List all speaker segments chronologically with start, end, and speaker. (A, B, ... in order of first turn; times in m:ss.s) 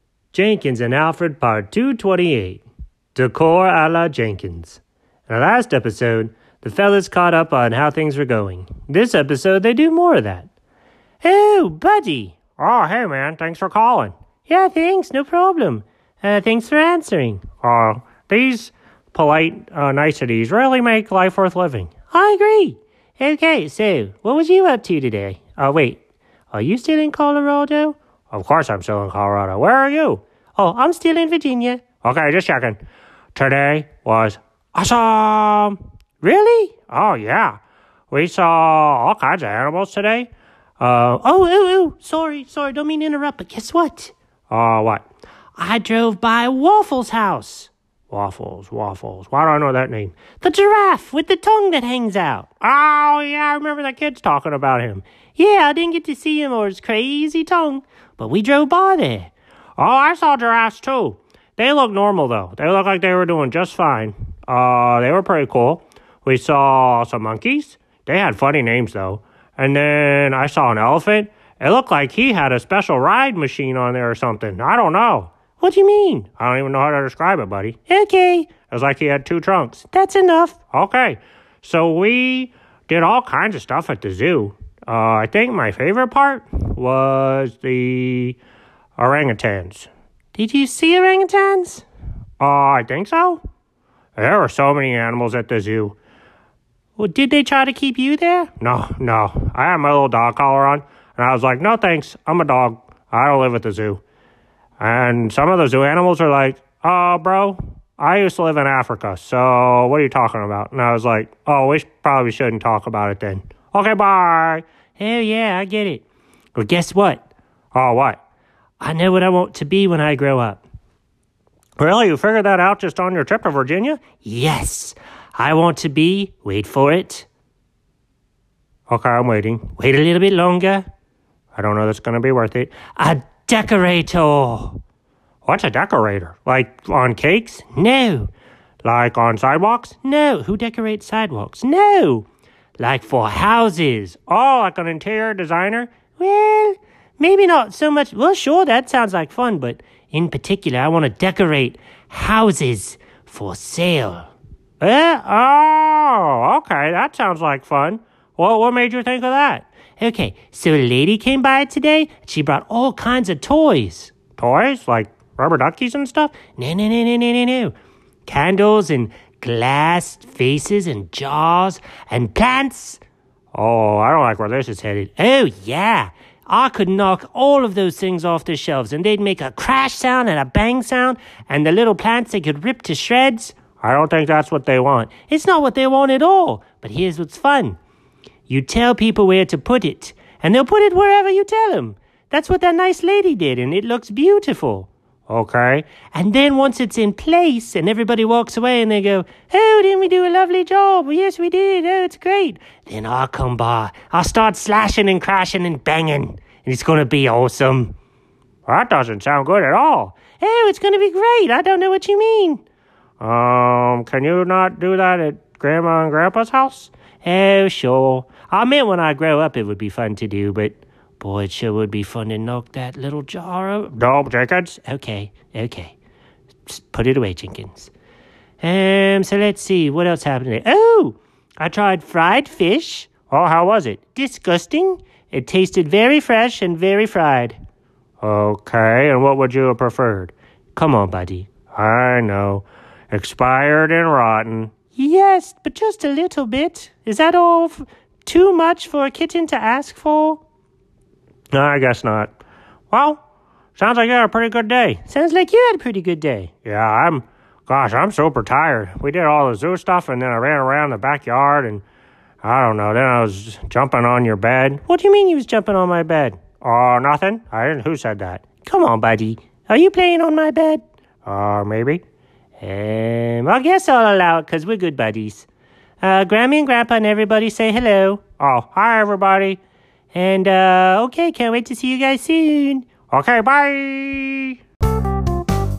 0:00.3-0:02.6 A
0:03.1-0:10.5 A
0:11.2-0:26.0 A
0:26.5-0:32.8 A
0:33.3-0:45.0 A
0:45.6-1:28.4 A
1:29.0-1:31.8 A
1:32.4-1:33.4 A
1:34.2-1:36.0 A
1:37.0-1:44.0 A
1:44.8-1:58.2 A
1:58.8-2:00.6 A
2:01.8-2:07.3 A
2:08.9-2:10.8 A
2:11.5-2:14.8 A
2:15.4-2:18.3 A
2:18.8-2:22.2 A
2:22.8-2:47.7 A
2:48.2-2:53.0 A
2:53.5-3:07.8 A
3:08.5-3:28.0 A
3:28.6-3:32.6 A
3:33.2-3:46.0 A
3:46.7-3:47.9 A
3:48.6-3:57.6 A
3:58.2-4:10.4 A
4:11.5-4:12.4 A
4:12.9-4:13.2 A
4:13.7-4:21.8 A
4:22.4-4:32.0 A
4:32.6-4:35.5 A
4:36.0-4:39.6 A
4:40.1-4:44.6 A